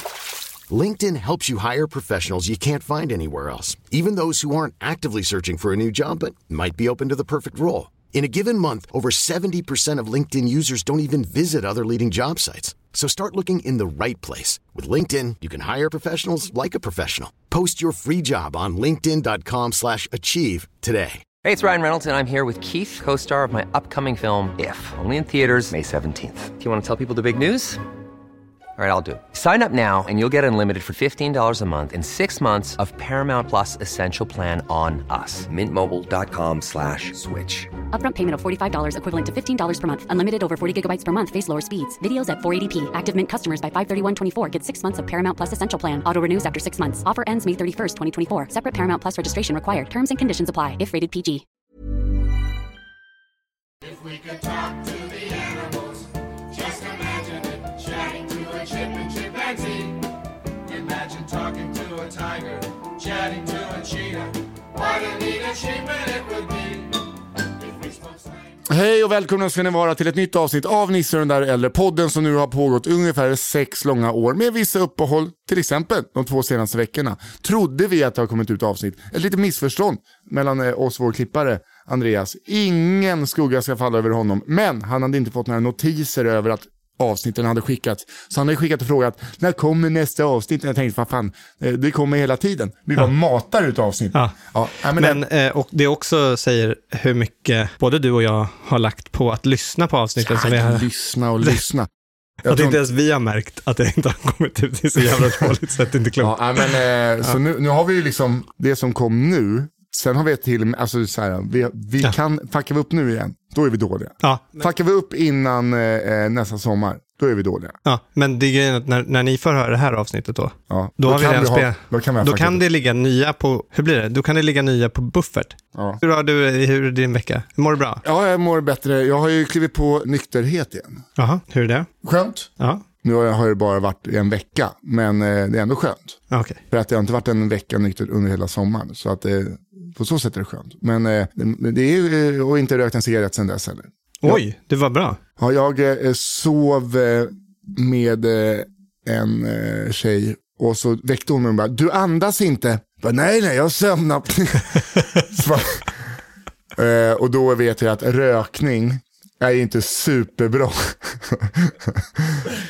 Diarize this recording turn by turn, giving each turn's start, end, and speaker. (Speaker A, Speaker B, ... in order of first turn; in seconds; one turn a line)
Speaker A: 0.7-21.2
Speaker B: 21.4-27.8
Speaker B: 28.8-37.7
Speaker C: 37.9-51.4
Speaker D: 53.8-60.1
Speaker D: 60.6-67.0
Speaker D: 67.6-68.3
Speaker E: 68.7-95.2
Speaker F: 94.9-100.8
Speaker E: 100.2-101.9
Speaker E: 102.4-102.8
Speaker F: 102.5-106.7
Speaker E: 106.2-117.8
Speaker F: 114.2-114.7
Speaker F: 117.8-128.0
Speaker E: 120.7-122.6
Speaker E: 125.7-126.0
Speaker E: 128.0-131.0
Speaker F: 131.2-131.9
Speaker E: 132.0-132.5
Speaker E: 133.0-144.4
Speaker F: 136.3-136.6
Speaker F: 144.2-145.2
Speaker E: 145.4-155.9
Speaker E: 156.8-162.4